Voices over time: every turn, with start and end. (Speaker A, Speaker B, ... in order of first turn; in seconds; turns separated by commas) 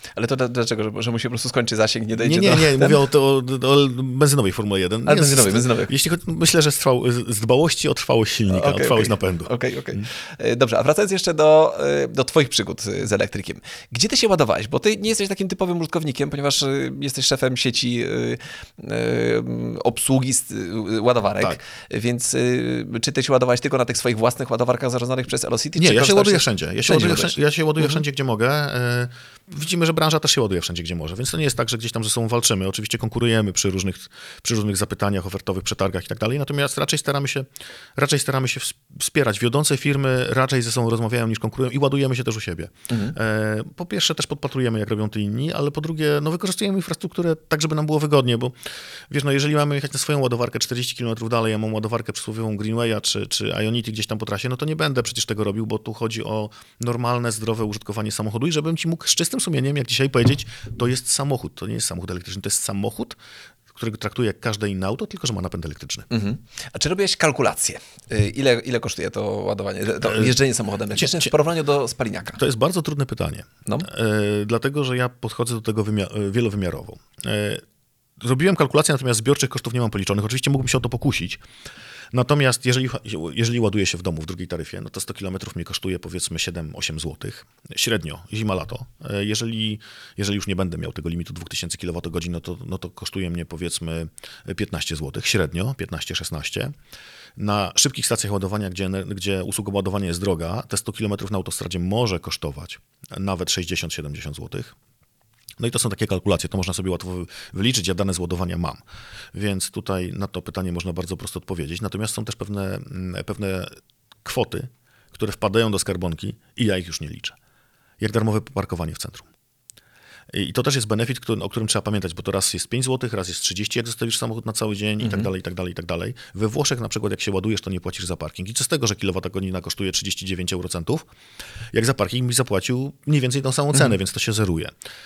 Speaker A: 0.2-3.0, Speaker B: 2.2-10.1, Speaker A: 5.0-5.9, Speaker A: 8.5-28.0, Speaker B: 25.8-48.5, Speaker A: 42.9-43.1, Speaker B: 49.1-63.2, Speaker B: 63.7-66.1, Speaker A: 66.1-72.4, Speaker B: 70.0-70.4, Speaker B: 70.9-71.3, Speaker B: 72.4-77.6, Speaker B: 78.2-81.4, Speaker B: 82.1-96.7, Speaker B: 97.4-104.8, Speaker B: 105.6-108.8, Speaker B: 109.3-113.7, Speaker B: 114.2-117.3, Speaker B: 118.0-119.3, Speaker B: 120.3-131.1, Speaker A: 125.0-125.3, Speaker B: 131.7-134.7